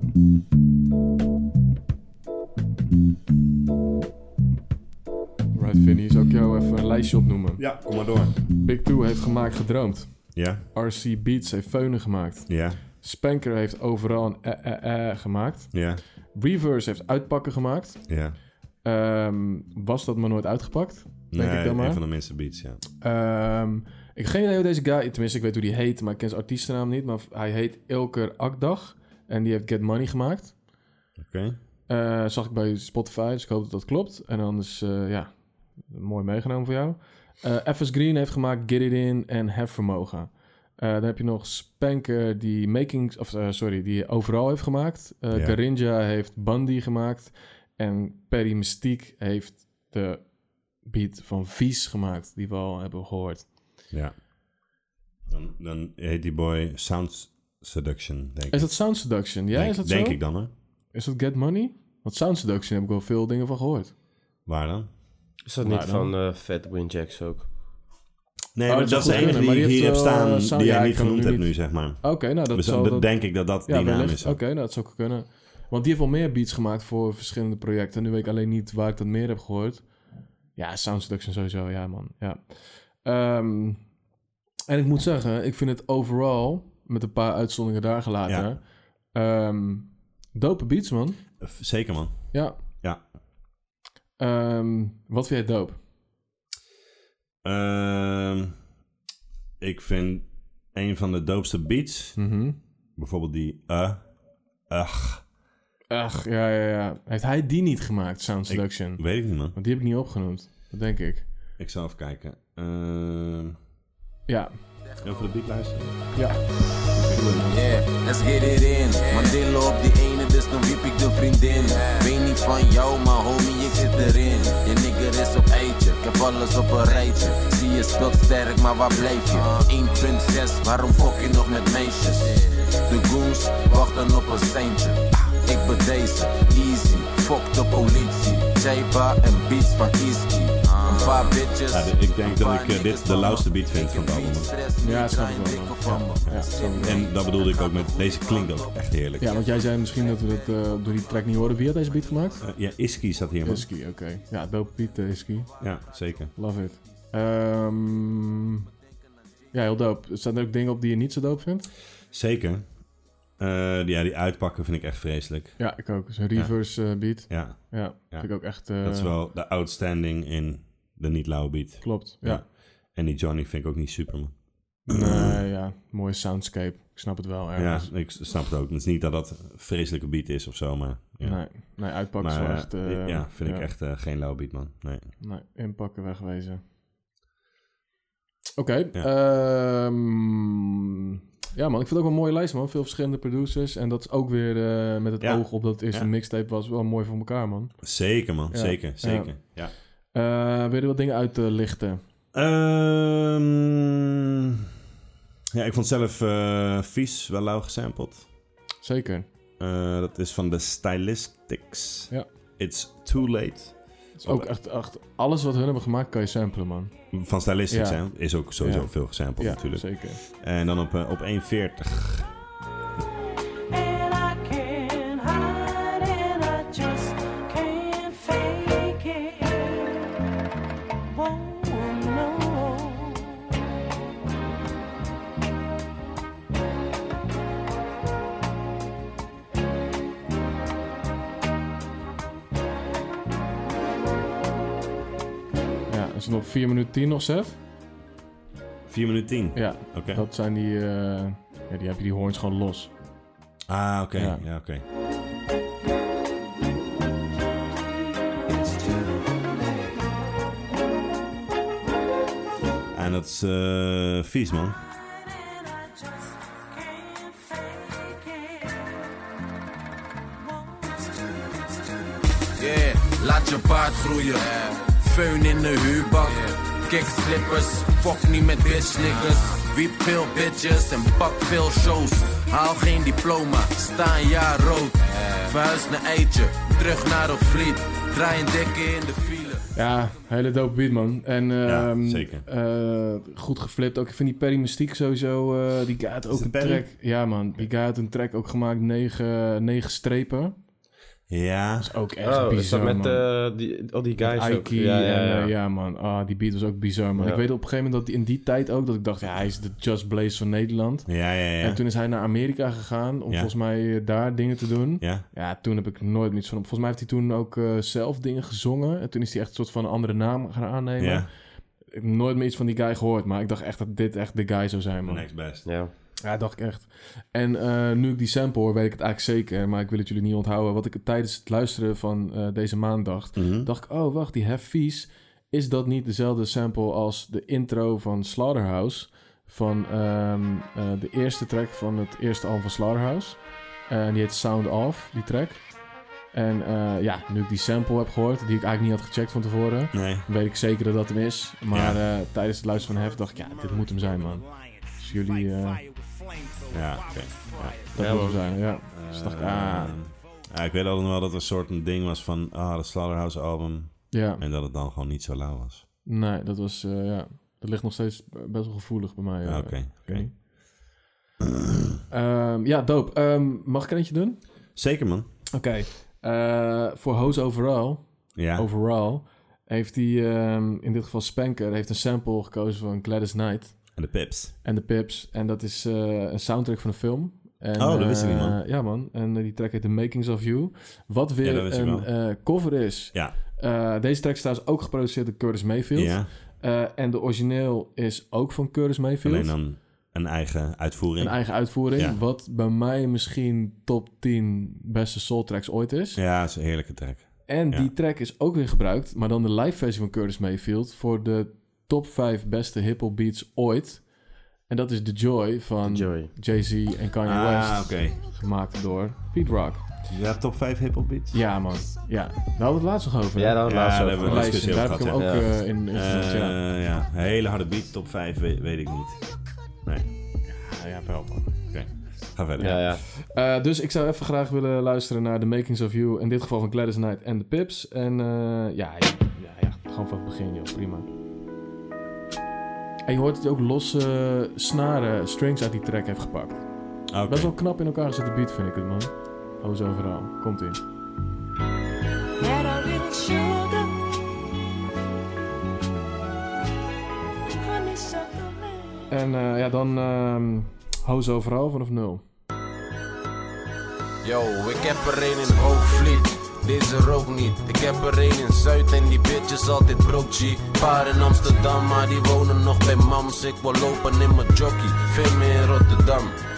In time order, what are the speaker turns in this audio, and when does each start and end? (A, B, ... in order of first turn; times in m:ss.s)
0:05.5-0:22.0 A
0:07.6-0:08.4 B
0:10.3-0:10.6 B
0:12.5-0:12.8 B
0:15.7-0:16.0 B
0:18.1-0:18.4 B
0:21.3-0:22.8 B
0:23.0-0:30.6 A
0:31.2-0:31.6 B
0:31.9-0:53.6 A
0:45.3-0:45.6 B
0:53.9-0:54.2 B
0:55.3-1:00.5 B
0:58.5-1:03.9 A
1:04.4-1:05.0 B
1:05.5-1:07.5 C
1:05.6-1:06.1 A
1:08.6-1:14.4 B
1:08.7-1:19.9 A
1:20.6-1:23.9 A
1:24.7-1:31.3 A
1:28.3-1:28.5 B
1:31.4-1:33.0 B
1:32.3-1:32.6 A
1:34.2-1:35.8 A
1:37.4-1:38.6 B
1:39.6-1:42.3 B
1:42.2-1:42.6 A
1:43.0-1:45.3 B
1:45.9-1:51.3 A
1:48.5-1:49.6 B
1:51.6-1:53.6 B
1:54.3-1:54.6 A
1:55.0-1:56.3 B
1:56.1-1:57.6 A
1:57.0-1:57.3 B
1:57.5-2:28.8 D
2:21.7-2:24.5 B
2:24.8-2:27.1 A
2:26.3-2:29.3 B
2:29.2-2:32.4 A
2:32.4-2:33.7 B
2:33.4-2:35.5 A
2:35.6-2:36.3 B
2:36.4-2:38.7 A
2:39.5-2:41.7 A
2:42.1-2:45.8 B
2:45.6-2:49.2 A
2:46.3-2:55.4 B
2:51.8-2:52.4 A
2:54.9-2:57.9 A
2:57.6-3:05.1 B
3:01.2-3:03.7 A
3:05.2-3:06.6 A
3:08.6-3:17.9 A
3:15.2-3:16.1 B
3:17.8-3:19.7 B
3:18.5-3:22.0 A
3:22.3-3:24.6 B
3:25.5-3:28.3 B
3:28.8-3:29.3 A
3:29.6-3:34.5 B
3:34.2-3:36.9 A
3:37.1-3:42.3 B
3:37.7-3:40.2 A
3:43.7-3:50.0 E
3:51.1-3:53.4 E
4:05.9-4:07.6 A
4:08.9-4:10.2 B
4:09.5-4:12.9 A
4:13.7-4:14.8 B
4:14.2-4:14.4 A
4:18.4-4:19.9 E
4:22.9-4:24.8 B
4:25.2-4:28.9 E
4:30.4-4:31.6 E
4:32.6-4:49.6 D
4:49.7-5:00.6 A
4:51.6-4:52.5 B
4:56.3-4:56.9 B
5:01.3-5:01.9 B
5:01.8-5:03.2 A
5:02.2-5:05.5 C
5:04.2-5:21.3 A
5:07.2-5:07.4 C
5:11.1-5:11.8 B
5:15.0-5:15.3 B
5:21.0-5:21.3 B
5:21.9-5:25.6 A
5:25.0-5:25.8 B
5:25.6-5:25.9 C
5:26.2-5:54.5 A
5:33.4-5:33.7 B
5:49.9-5:50.3 B
5:51.7-5:52.0 B
5:55.0-5:55.8 A
5:56.7-5:57.4 B
5:57.6-6:00.0 A
5:58.0-5:58.4 C
5:58.9-6:05.9 B
6:04.1-6:04.4 A
6:06.0-6:10.4 A
6:09.4-6:10.5 B
6:12.1-6:14.8 A
6:14.8-6:15.3 B
6:15.5-6:39.6 A
6:18.4-6:18.7 B
6:24.0-6:24.5 B
6:27.8-6:28.6 B
6:31.4-6:32.1 B
6:36.0-6:36.3 B
6:39.2-6:42.2 B
6:41.2-6:46.2 A
6:46.2-6:47.9 B
6:47.5-6:54.2 A
6:54.7-6:59.8 A
6:55.8-6:56.3 C
6:57.2-6:58.2 B
7:00.1-7:01.4 B
7:01.3-7:06.6 A
7:03.4-7:05.5 C
7:03.6-7:09.3 B
7:09.8-7:10.1 B
7:10.5-7:11.5 A
7:11.7-7:12.9 B
7:12.6-7:13.0 C
7:12.6-7:21.1 A
7:23.1-7:26.7 A
7:27.1-7:27.5 B
7:27.2-7:30.8 A
7:32.4-7:34.0 E
7:37.6-7:39.1 E
7:39.1-7:42.2 A
7:44.2-7:56.4 D